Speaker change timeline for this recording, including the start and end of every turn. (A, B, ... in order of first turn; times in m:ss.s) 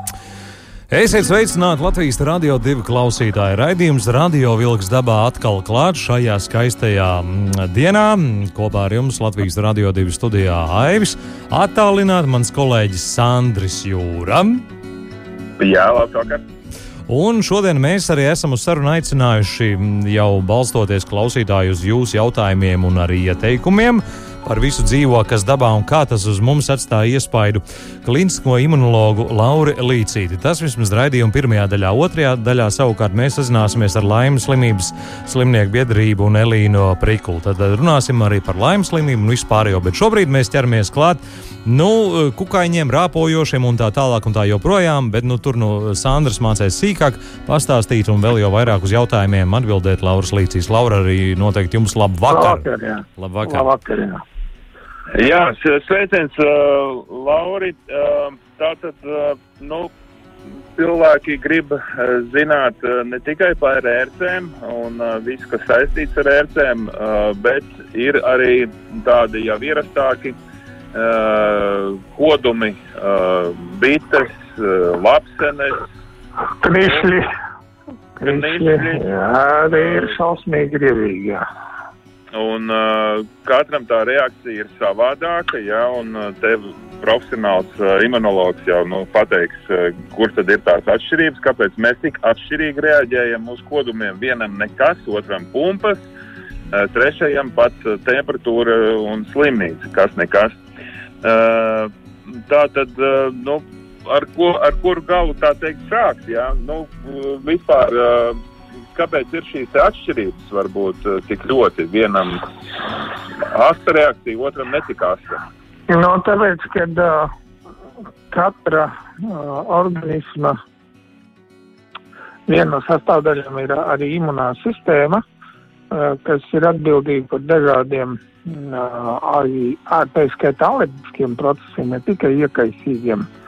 0:00.9-0:14.6 A
0:15.6-0:16.4 B
0:17.1-0:52.7 A
0:52.3-0:54.2 C
0:53.2-0:53.7 A
0:55.1-0:59.9 B
1:00.8-1:10.4 B
1:10.9-1:15.8 B
1:16.6-1:17.3 C
1:18.2-1:21.4 C
1:18.2-1:19.1 B
1:19.7-1:20.2 B
1:22.3-1:36.0 B
1:36.7-1:40.6 B
1:41.2-1:48.4 B
1:49.0-1:55.4 B
1:55.9-1:57.3 C
1:58.3-2:00.6 C
2:02.5-2:05.2 C
2:05.9-2:13.3 C